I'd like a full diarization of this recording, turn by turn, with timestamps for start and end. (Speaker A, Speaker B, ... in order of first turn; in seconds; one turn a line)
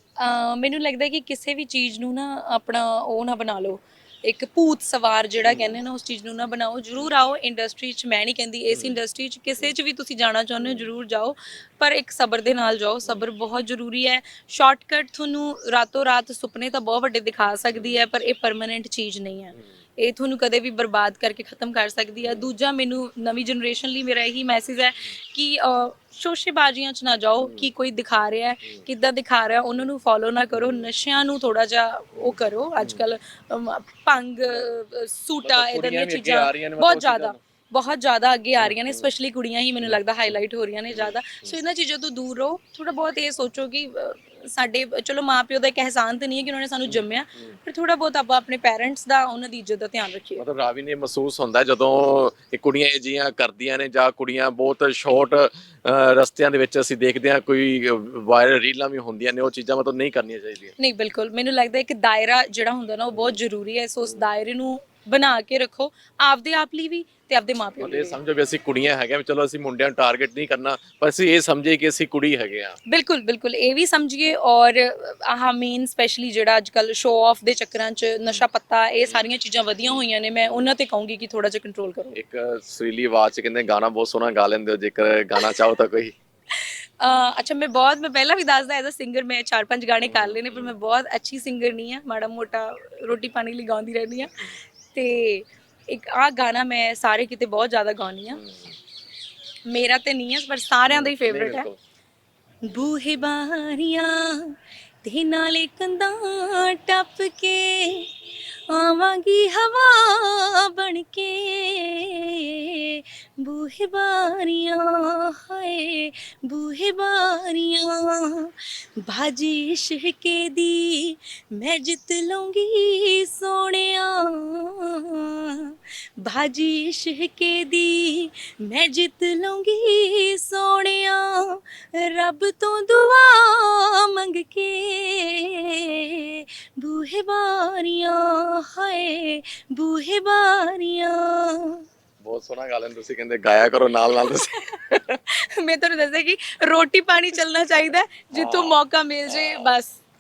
Speaker A: 0.2-50.4
Speaker B: 5.4-5.8
Speaker B: 8.7-9.0
Speaker B: 10.6-10.9
Speaker B: 17.7-18.0
Speaker B: 22.2-22.5
Speaker B: 27.4-27.7
Speaker B: 30.5-30.9
Speaker B: 32.1-33.0
Speaker B: 35.4-37.4
Speaker B: 38.6-39.1
Speaker B: 39.8-41.5
Speaker B: 46.9-47.5
Speaker B: 50.4-60.7
Speaker A: 60.8-68.2
Speaker B: 67.8-72.8
Speaker A: 72.9-82.2
Speaker B: 79.8-80.7
Speaker B: 82.1-86.1
Speaker A: 86.6-98.4
Speaker B: 90.0-90.7
Speaker B: 98.4-98.8
Speaker A: 99.7-101.7
Speaker B: 100.9-101.8
Speaker A: 102.7-108.1
Speaker A: 108.7-141.8
Speaker B: 142.2-145.2
Speaker A: 145.4-150.0
Speaker B: 148.3-148.8
Speaker B: 149.3-149.7